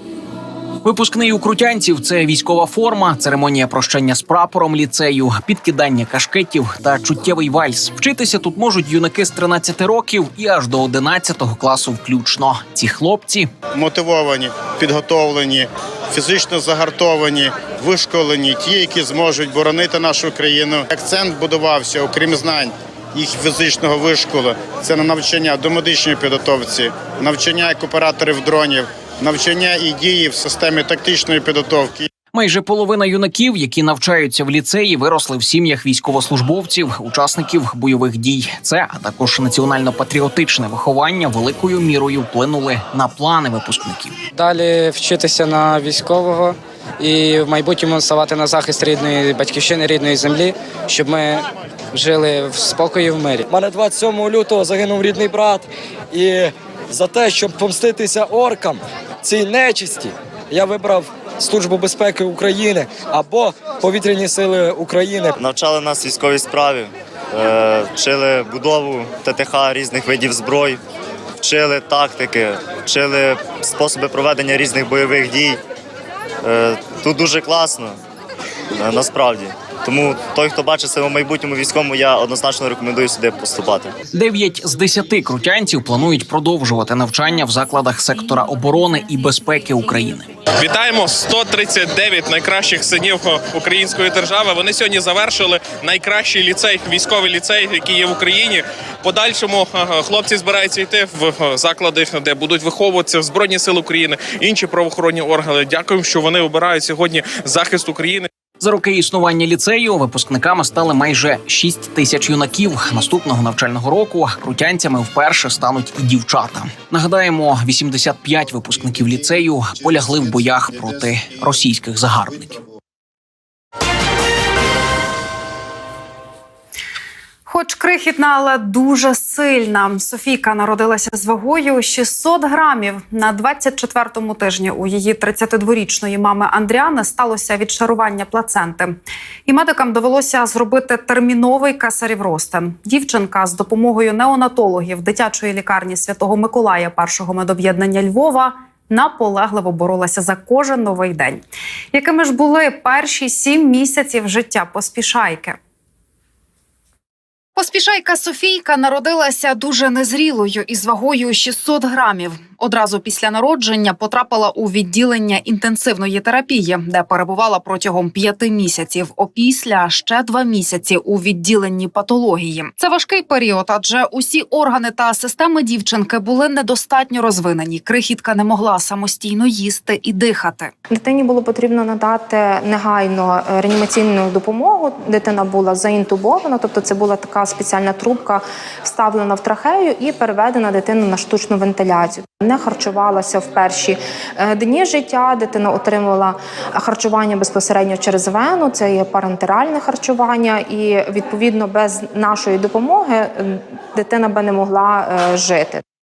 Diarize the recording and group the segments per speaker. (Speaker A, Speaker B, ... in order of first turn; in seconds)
Speaker A: 0.8-13.5, 32.3-44.1, 84.1-90.3, 108.6-122.6
Speaker B: 13.8-32.1
Speaker C: 44.3-53.5
Speaker D: 53.5-65.3
Speaker E: 65.4-70.8, 71.4-75.6, 76.4-78.0, 78.7-83.9
Speaker F: 90.6-108.3
Speaker G: 127.5-155.6, 157.6-180.7
Speaker H: 180.9-205.8